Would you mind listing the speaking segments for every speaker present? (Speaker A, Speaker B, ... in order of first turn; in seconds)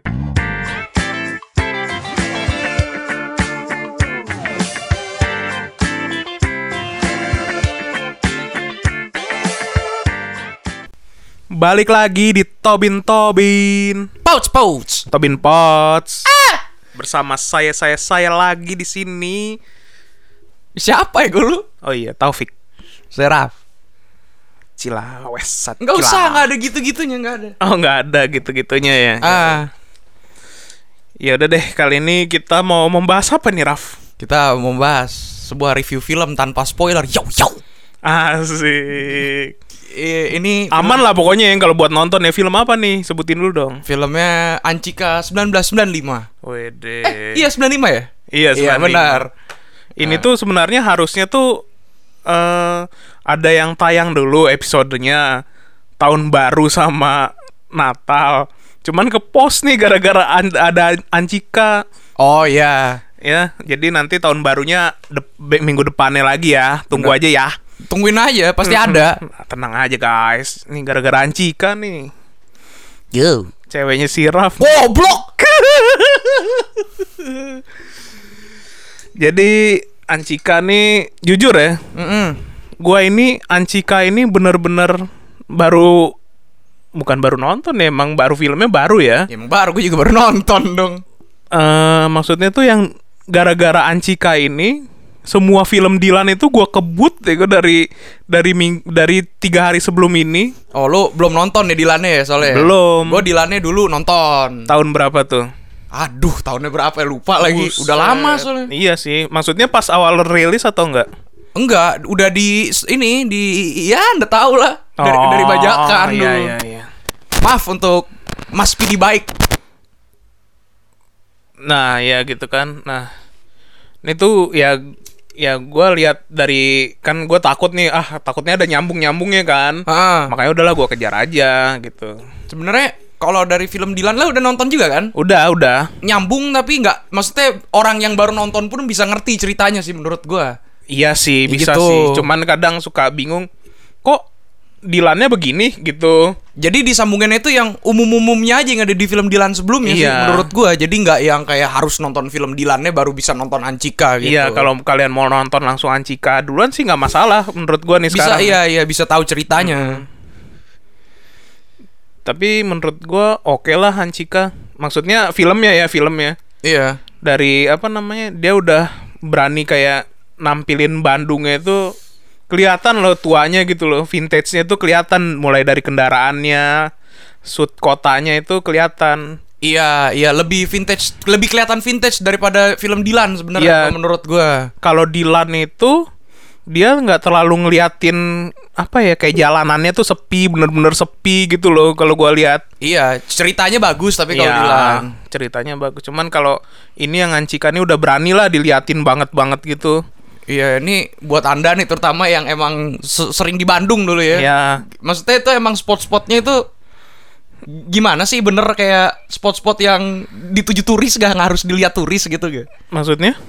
Speaker A: 11.6-14.1, 15.1-16.3, 16.9-19.6, 21.8-22.5, 24.8-26.4, 27.6-29.6, 31.2-33.9, 38.0-39.5, 40.7-43.8, 46.4-47.4, 48.3-49.3, 50.0-51.6, 52.3-55.2, 56.0-61.8, 63.2-67.5, 68.6-72.1, 73.7-77.6, 79.2-79.5, 80.1-81.8, 82.8-85.0, 85.6-86.0, 87.0-89.3, 91.5-94.7, 95.3-100.5, 102.4-103.2, 104.7-105.4, 107.4-111.0, 115.0-116.8, 121.7-123.1, 124.0-124.8, 125.4-132.1, 135.2-135.9, 140.9-143.5, 144.9-146.2, 149.8-150.5, 154.2-158.6, 159.6-160.0, 162.2-166.3, 167.2-171.8, 172.5-176.7, 177.5-179.2, 183.6-183.9, 184.8-185.9, 186.7-188.2, 188.8-192.6, 194.3-199.9, 204.3-204.8, 212.9-213.4
Speaker B: 14.2-15.1, 16.3-16.6, 20.8-21.6, 23.1-23.5, 25.8-27.5, 29.2-29.7, 34.2-37.6, 39.9-41.0, 43.9-46.2, 47.0-49.3, 50.0-50.2, 62.2-63.0, 67.9-69.2, 73.1-73.5, 74.6-75.3, 81.9-82.4, 89.3-91.0, 100.7-104.7, 105.9-108.7, 111.5-116.5, 117.4-119.3, 129.9-130.3, 132.5-135.1, 136.0-140.5, 141.5-142.2, 146.6-154.7, 158.1-160.0, 166.6-167.0, 179.6-184.7, 192.8-195.1, 200.5-204.5, 205.0-206.6, 207.7-212.7